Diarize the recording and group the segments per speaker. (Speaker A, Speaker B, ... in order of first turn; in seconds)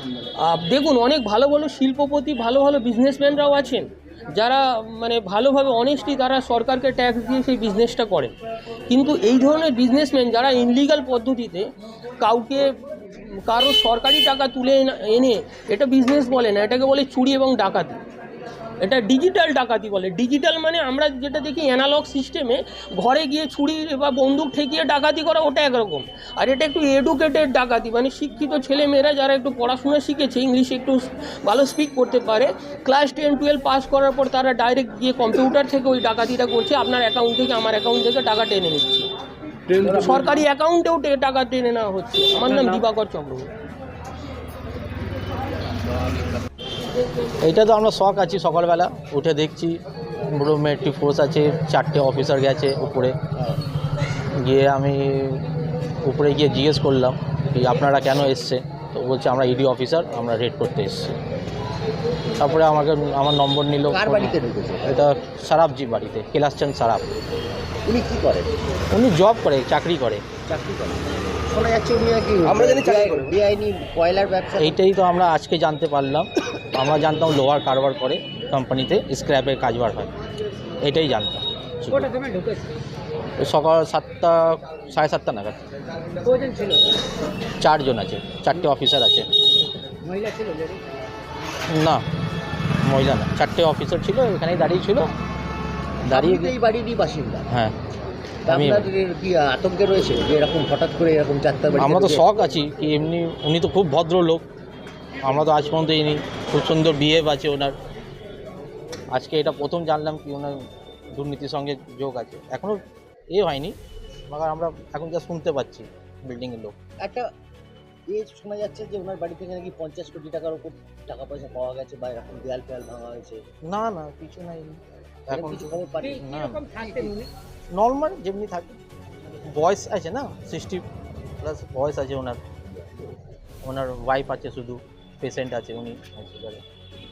Speaker A: 0.4-8.3, 8.9-18.0, 18.8-39.1, 39.9-43.5
Speaker B: 47.4-53.1, 54.4-55.4, 56.0-61.2, 62.4-67.1, 68.9-70.2, 72.4-73.3, 74.6-80.1, 80.8-82.1, 83.4-85.6, 87.6-89.3, 91.7-92.0, 92.8-95.1, 96.1-96.5, 98.5-98.9, 101.8-104.4, 105.2-107.8, 109.1-110.6, 111.2-112.8, 113.3-113.7, 114.3-116.7, 123.7-124.8, 125.3-126.6, 127.7-128.8, 129.5-130.8, 131.4-132.4, 133.6-136.6
Speaker C: 63.9-65.0, 67.8-68.5, 70.5-74.7, 96.1-97.5, 98.5-102.2, 117.0-117.3, 118.1-123.4, 125.3-127.1
Speaker D: 81.9-82.7, 86.2-87.0, 89.8-91.1, 126.0-127.3